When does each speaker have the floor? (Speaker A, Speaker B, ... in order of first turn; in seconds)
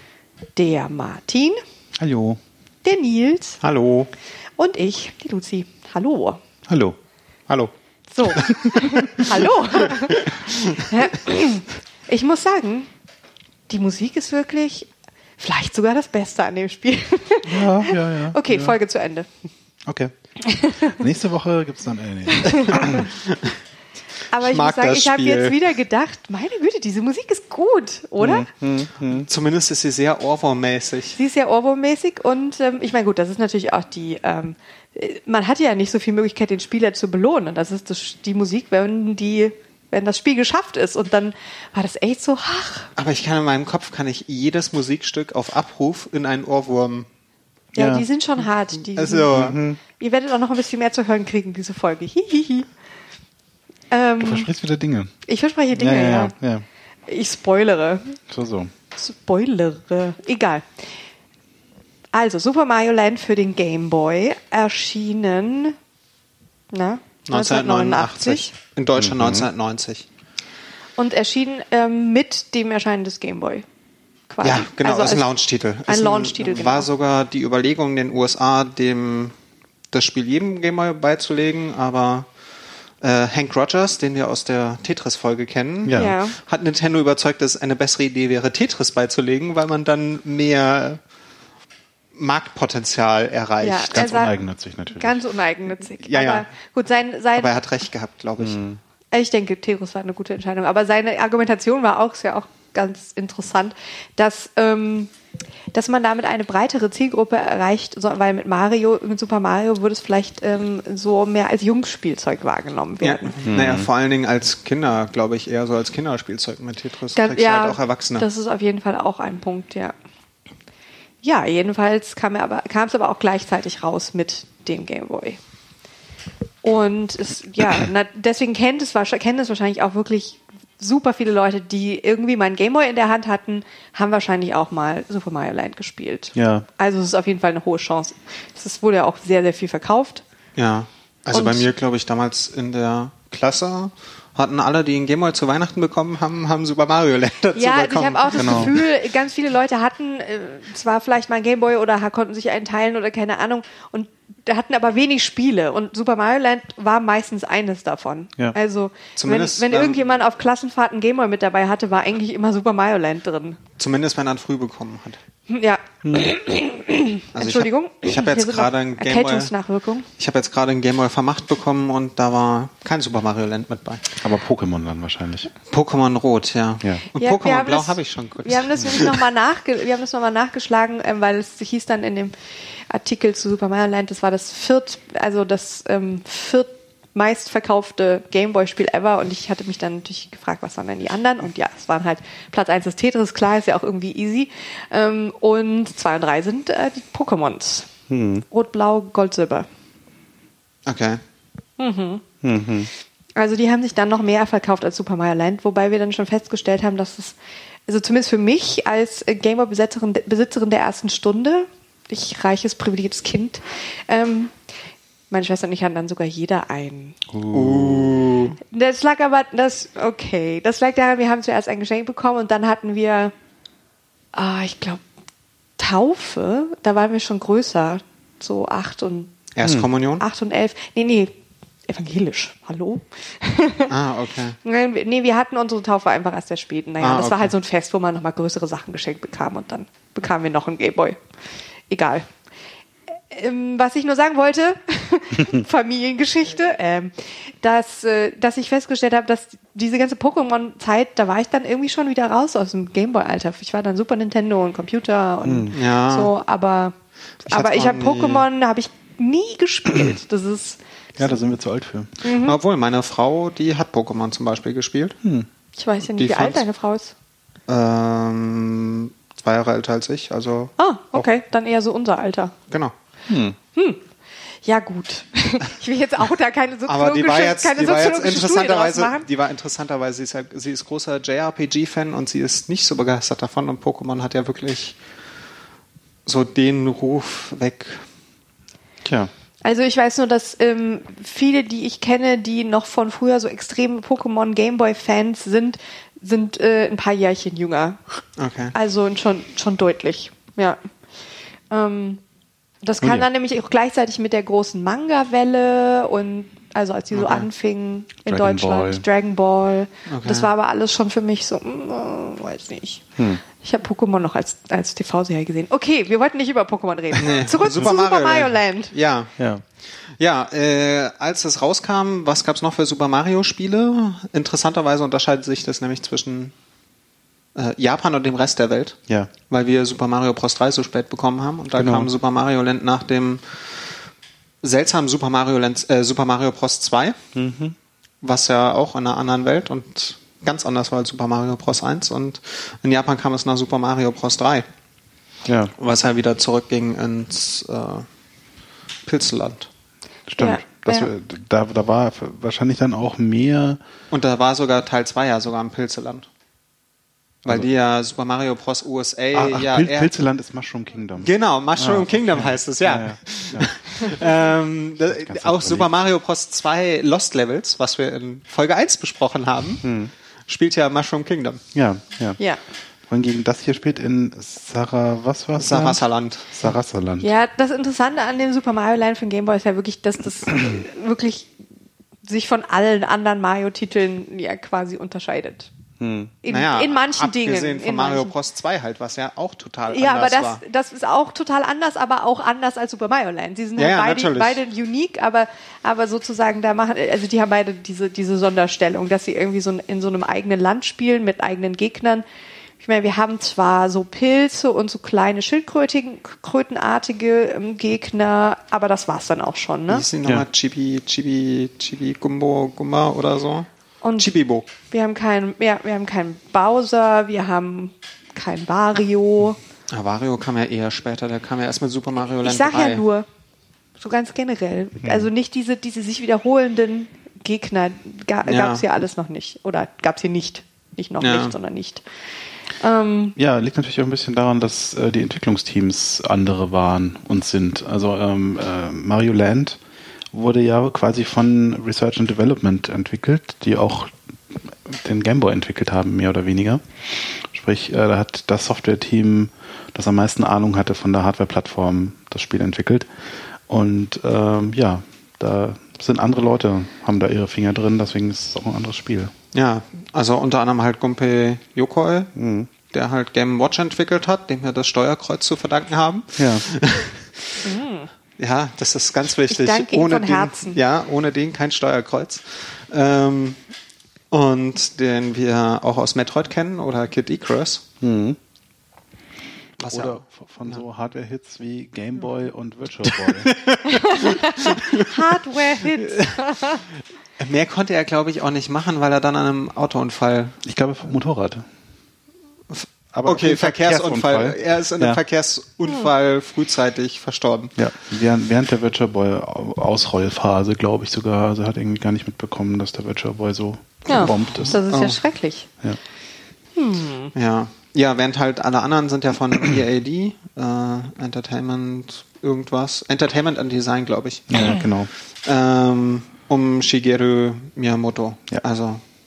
Speaker A: 0.6-1.6, 2.8-3.6, 4.6-6.4, 8.1-10.3, 10.8-12.9, 13.7-19.3, 20.4-20.9, 22.3-23.1, 24.3-28.5, 31.1-42.9, 47.7-49.4, 49.9-52.7, 53.9-54.5, 55.2-56.3, 57.1-58.2, 59.0-60.8, 62.1-65.8, 66.7-68.5, 71.0-73.7, 74.3-75.3, 75.8-76.9, 85.9-86.4, 93.6-94.4, 94.9-97.6, 99.1-105.1, 105.7-113.3, 117.1-119.9, 121.2-125.4, 126.6-140.2, 141.3-141.7, 147.5-163.6, 165.5-170.1, 177.2-182.3, 182.9-197.9, 198.5-199.7, 201.8-202.2, 203.4-207.4, 207.9-214.5, 215.3-217.2, 218.6-223.3, 224.3-225.0, 225.8-229.3, 230.2-231.3, 231.9-233.9, 234.6-241.2, 241.9-242.3, 243.3-256.9, 257.4-261.3, 262.2-262.6, 265.8-267.1, 270.8-272.6, 273.8-274.0, 274.6-279.2, 289.6-298.0, 298.7-300.8, 301.7-302.2, 302.8-313.0, 313.6-318.9, 350.4-351.1, 377.2-381.5, 382.2-385.7, 386.4-388.3, 389.9-402.2, 402.8-410.1, 414.0-414.3, 414.9-419.6, 422.4-423.2, 424.0-432.0, 432.8-433.4, 467.6-468.1, 469.5-470.8, 483.9-486.8, 504.1-505.7, 506.8-507.3
Speaker B: 2.0-2.4, 6.7-7.0, 17.4-18.8, 19.9-20.1, 20.8-23.1, 28.2-29.3, 47.8-48.0, 49.3-49.8, 54.2-55.1, 55.8-56.6, 58.3-58.7, 69.0-69.5, 85.8-86.1, 93.9-95.2, 98.4-98.8, 113.4-113.9, 136.3-136.7, 148.4-148.7, 166.0-166.3, 174.2-175.5, 198.1-198.4, 202.4-202.9, 217.3-218.3, 255.4-255.7, 259.9-260.1, 261.1-262.2, 265.2-265.5, 273.3-273.6, 289.0-289.3, 308.3-309.0, 313.2-313.4, 319.4-319.6, 331.8-332.1, 337.3-337.8, 345.4-345.7, 350.3-353.8, 359.3-363.7, 365.1-365.9, 369.8-370.1, 371.7-372.4, 373.1-377.3, 386.0-386.3, 425.0-425.3, 433.4-439.8, 440.3-453.1, 453.7-459.3, 462.4-462.7, 466.4-466.6, 478.0-478.4, 479.9-483.6, 490.6-491.7, 493.1-495.2, 497.8-504.8, 514.5-515.1
Speaker C: 3.6-4.1, 8.3-9.3, 9.9-10.9, 22.9-23.5, 24.4-25.5, 29.2-31.2, 43.0-47.1, 48.9-49.6, 67.3-70.0, 74.4-79.3, 79.9-82.3, 83.0-91.0, 92.1-94.3, 96.0-96.5, 97.3-98.6, 113.0-118.2, 140.6-148.8, 159.2-160.0, 163.8-165.2, 167.3-169.5, 170.2-174.0, 175.7-179.2, 200.9-201.2, 217.5-218.6, 229.6-230.2, 233.9-234.6, 237.0-237.5, 255.7-256.3, 257.5-258.4, 262.4-265.2, 266.1-266.6, 267.7-270.7, 276.9-284.9, 286.2-288.0, 298.4-298.7, 307.1-307.5, 310.1-310.5, 317.2-319.3, 320.2-326.5, 327.6-329.0, 329.5-333.5, 334.6-337.2, 338.2-344.6, 345.8-348.1, 349.1-349.7, 354.1-356.2, 357.4-360.1, 361.2-369.8, 370.5-371.6, 375.6-376.6, 386.5-390.6, 393.8-394.6, 409.9-413.7, 414.2-414.7, 419.9-423.0, 428.4-428.8, 431.2-431.6, 459.5-462.3, 462.9-467.6, 468.4-473.6, 474.3-477.8, 479.8-480.8, 483.1-485.1, 485.9-486.4, 487.4-490.6, 492.7-497.7, 504.1-505.2, 507.3-514.7, 515.4-519.0